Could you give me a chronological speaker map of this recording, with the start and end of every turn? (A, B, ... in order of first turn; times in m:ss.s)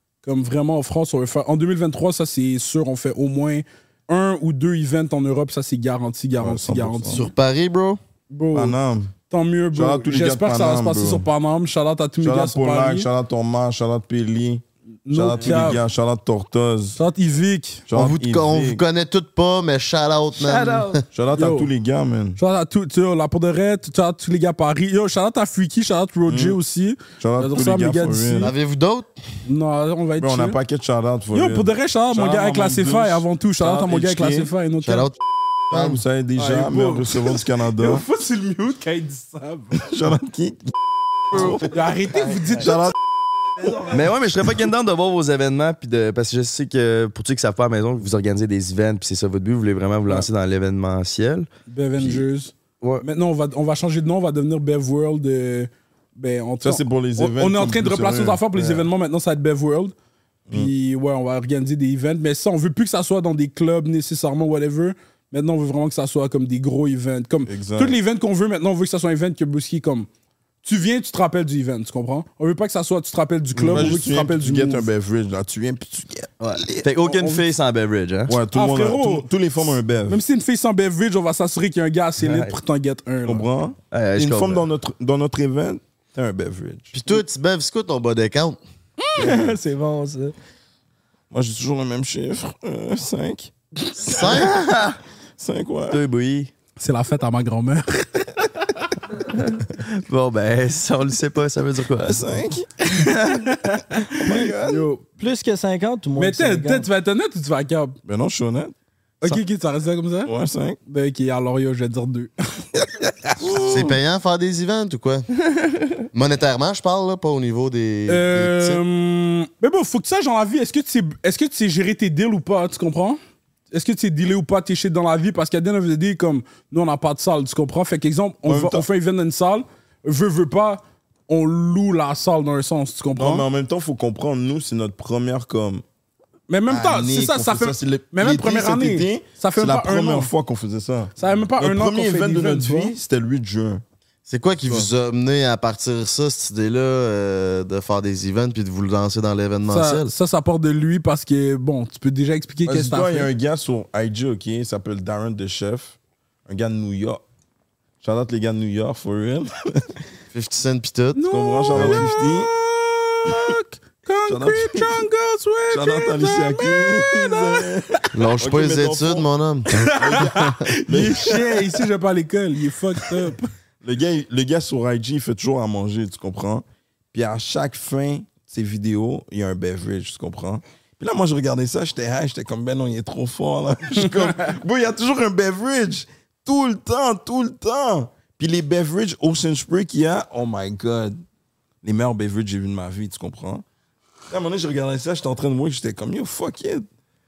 0:00.2-0:07.2 A
0:06.4-0:07.2 B
0:07.1-0:08.0 C
0:08.3-0:08.8 A
0:08.5-0:09.1 B
0:09.3-0:13.1 A
0:09.7-0:11.3 B
0:12.2-0:17.0 B
0:15.0-0:15.8 A
0:17.0-0:17.8 A
0:17.9-0:18.8 B
0:17.9-0:21.0 C
0:20.4-0:21.0 D
0:21.1-0:22.4 B
0:21.3-0:21.7 A
0:22.4-0:28.5 A
0:26.2-0:26.6 B
0:27.2-0:28.5 B
0:28.4-0:29.1 C
0:29.4-0:30.6 A
0:30.2-0:34.5 B
0:31.3-0:35.1 A
0:34.8-0:35.2 C
0:35.7-0:36.0 C
0:35.7-0:38.0 B
0:36.4-0:39.8 A
0:39.8-0:40.7 B
0:41.3-0:41.8 B
0:41.3-0:42.9 A
0:42.6-0:42.9 B
0:43.6-0:43.9 A
0:43.9-0:52.2 E
0:51.7-0:59.9 A
0:56.6-0:58.9 B
1:00.5-1:10.1 A
1:07.4-1:08.0 B
1:10.6-1:14.9 A
1:13.5-1:16.9 B
1:16.4-1:18.4 E
1:17.0-1:17.4 A
1:18.3-1:20.2 B
1:18.5-1:23.4 A
1:22.2-1:22.6 E
1:23.2-1:26.9 B
1:23.9-1:24.7 E
1:26.9-1:28.6 C
1:29.1-1:30.3 D
1:29.2-1:29.6 B
1:31.3-1:33.5 B
1:34.0-1:34.5 C
1:34.2-1:35.0 E
1:35.4-1:36.0 B
1:35.9-1:36.5 E
1:36.8-1:38.8 A
1:39.3-1:42.3 E
1:42.0-1:42.7 B
1:44.2-1:44.8 B
1:44.2-1:44.6 D
1:44.6-1:45.0 A
1:45.2-1:46.9 D
1:46.2-1:48.0 A
1:48.0-1:48.7 B
1:49.2-1:50.3 A
1:50.2-1:50.8 B
1:50.9-1:52.6 A
1:53.4-1:53.9 B
1:53.5-1:55.3 C
1:56.1-1:58.8 C
1:58.1-2:03.2 A
2:03.7-2:13.4 A
2:08.4-2:08.9 B
2:13.2-2:15.8 B
2:16.5-2:20.3 A
2:16.7-2:23.8 B
2:21.2-2:22.9 A
2:24.3-2:30.1 C
2:29.7-2:33.3 A
2:32.6-2:37.2 B
2:38.0-2:39.9 B
2:40.3-2:41.2 C
2:41.2-2:48.1 A
2:41.2-2:42.5 B
2:41.7-2:42.0 C
2:43.3-2:43.5 B
2:44.3-2:45.0 B
2:45.7-2:49.3 B
2:48.1-2:50.5 C
2:49.8-2:53.5 A
2:49.9-2:51.7 B
2:53.8-3:11.2 B
3:11.8-3:13.6 B
3:14.3-3:16.8 B